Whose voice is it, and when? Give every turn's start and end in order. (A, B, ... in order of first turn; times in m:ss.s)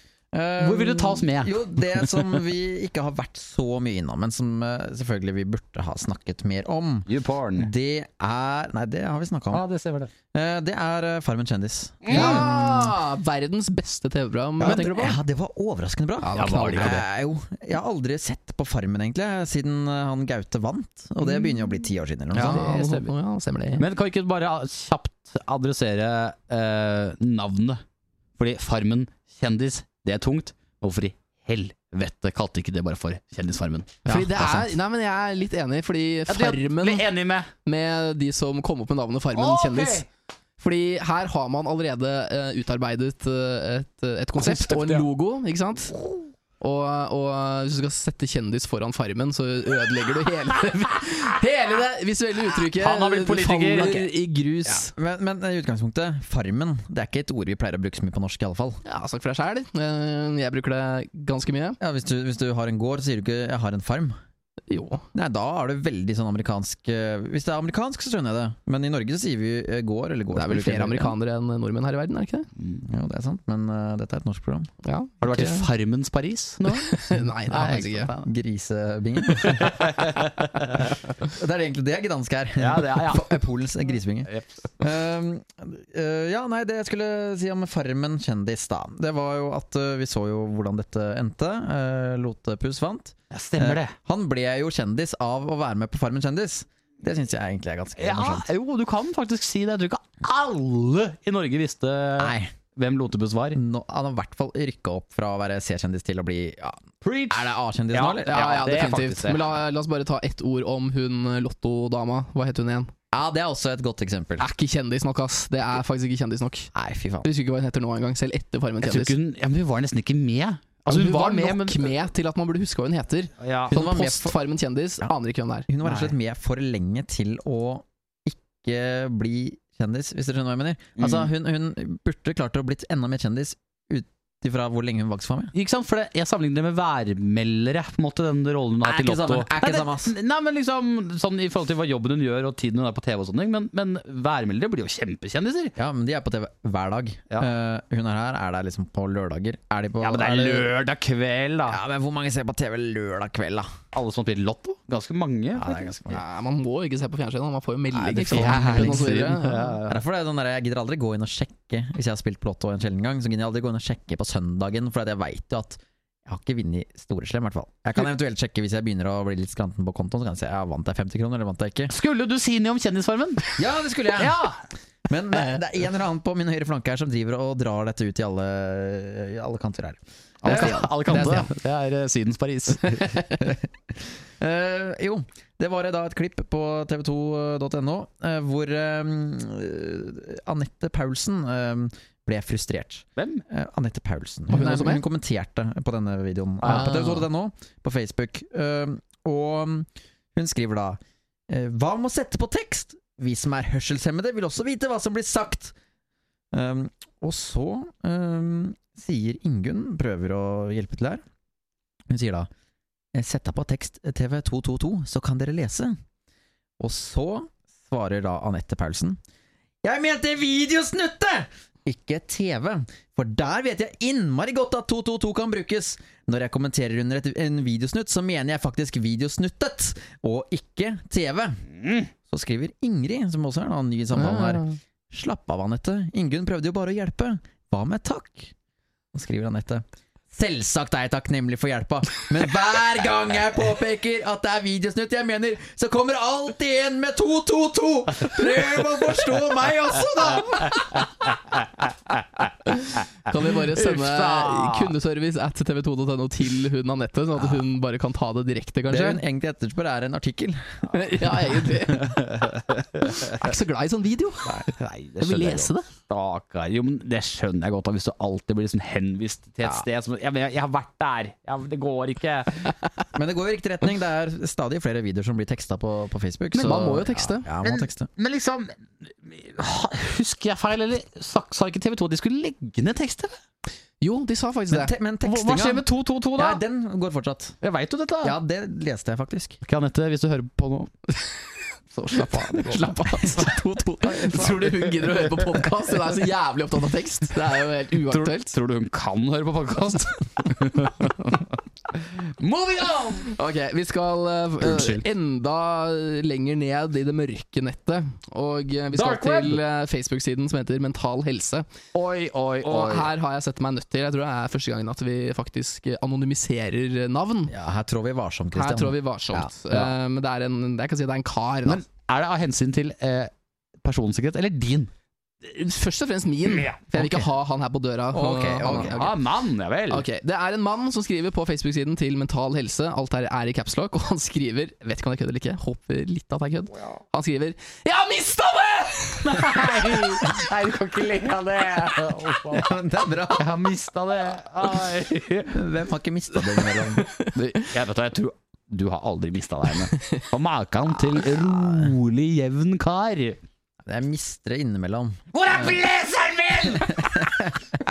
0:00.3-0:09.6 A
0:00.6-0:02.3 B
0:07.1-0:07.7 B
0:09.5-0:10.1 B
0:10.3-0:12.6 A
0:12.0-0:12.6 B
0:12.1-0:15.2 C
0:14.6-0:22.7 A
0:16.2-0:17.0 C
0:16.3-0:17.0 B
0:22.3-0:23.1 B
0:22.3-0:23.8 C
0:23.8-0:27.8 B
0:28.4-0:34.2 B
0:34.0-0:34.7 A
0:34.0-0:37.1 C
0:36.3-0:37.5 B
0:37.6-0:40.0 C
0:39.3-0:40.0 B
0:40.6-0:46.0 C
0:44.4-0:45.1 B
0:46.6-0:54.9 C
0:52.6-0:54.0 B
0:53.8-0:54.1 A
0:54.9-0:58.8 A
0:58.8-1:01.8 C
1:01.8-1:04.1 A
1:04.7-1:05.0 C
1:05.1-1:11.1 A
1:10.3-1:12.5 C
1:12.8-1:14.7 A
1:14.8-1:15.7 C
1:15.2-1:18.3 B
1:16.6-1:18.1 C
1:18.2-1:20.2 A
1:19.4-1:21.0 B
1:21.2-1:38.5 A
1:22.6-1:23.4 B
1:24.3-1:24.6 B
1:33.3-1:33.9 B
1:38.0-1:43.6 B
1:42.2-1:42.5 A
1:43.5-1:48.6 A
1:47.0-1:49.4 B
1:48.2-1:52.9 C
1:53.1-1:54.4 A
1:54.4-1:56.7 C
1:56.7-1:57.3 A
1:57.2-1:59.1 C
1:58.8-2:01.9 B
2:00.8-2:05.7 C
2:03.4-2:03.8 B
2:03.7-2:04.3 A
2:05.7-2:15.5 A
2:05.8-2:06.1 B
2:11.0-2:11.3 B
2:15.5-2:25.7 B
2:18.8-2:20.2 A
2:25.8-2:30.7 A
2:30.0-2:31.8 B
2:31.7-2:33.7 A
2:33.9-2:36.0 B
2:35.6-2:36.2 A
2:36.1-2:39.8 C
2:38.1-2:40.0 B
2:38.1-2:39.1 A
2:39.9-2:51.9 A
2:51.9-2:53.6 B
2:53.6-2:54.4 A
2:54.2-2:54.6 B
2:55.1-3:00.8 A
3:00.4-3:01.5 C
3:00.4-3:03.3 B
3:03.4-3:03.7 A
3:04.4-3:25.7 A
3:13.2-3:13.4 B
3:14.5-3:15.0 C
3:16.6-3:17.1 B
3:16.6-3:17.2 C
3:26.5-3:31.2 A
3:32.1-3:32.5 A
3:33.1-3:36.0 A
3:36.8-3:39.2 A
3:39.8-3:51.6 A
3:51.8-3:52.1 B
3:52.3-3:58.5 A
3:54.1-3:54.8 C
3:59.1-4:11.1 A
4:12.8-4:19.2 C
4:13.7-4:14.9 B
4:18.9-4:21.0 A
4:20.9-4:22.2 C
4:21.9-4:23.4 B
4:23.1-4:24.6 C
4:24.6-4:32.7 B
4:25.2-4:25.9 C
4:33.1-4:38.1 A
4:36.5-4:37.5 C
4:37.6-4:43.3 B
4:44.0-4:44.9 C
4:44.7-4:47.6 A
4:45.2-4:46.6 B
4:47.6-4:48.4 B
4:48.2-4:49.6 A
4:49.6-4:51.1 B
4:51.9-4:53.0 B
4:52.1-4:58.5 C
4:54.2-4:54.6 A
4:58.1-5:03.4 B
5:03.3-5:11.6 C
5:04.6-5:05.0 B
5:08.9-5:09.6 B
5:11.9-5:13.1 B
5:12.6-5:17.5 C
5:17.5-5:19.5 A
5:18.5-5:21.8 C
5:21.6-5:23.3 B
5:23.8-5:24.9 B
5:25.4-5:29.1 C
5:26.5-5:26.8 B
5:28.1-5:29.0 A
5:28.6-5:30.0 B
5:29.9-5:39.8 C
5:39.2-5:45.6 B
5:42.5-5:43.5 A
5:45.5-5:47.0 A
5:47.0-5:47.3 C
5:47.3-5:53.4 B
5:51.6-5:51.9 A
5:53.8-5:55.8 A
5:55.3-5:57.2 B
5:56.7-5:57.6 A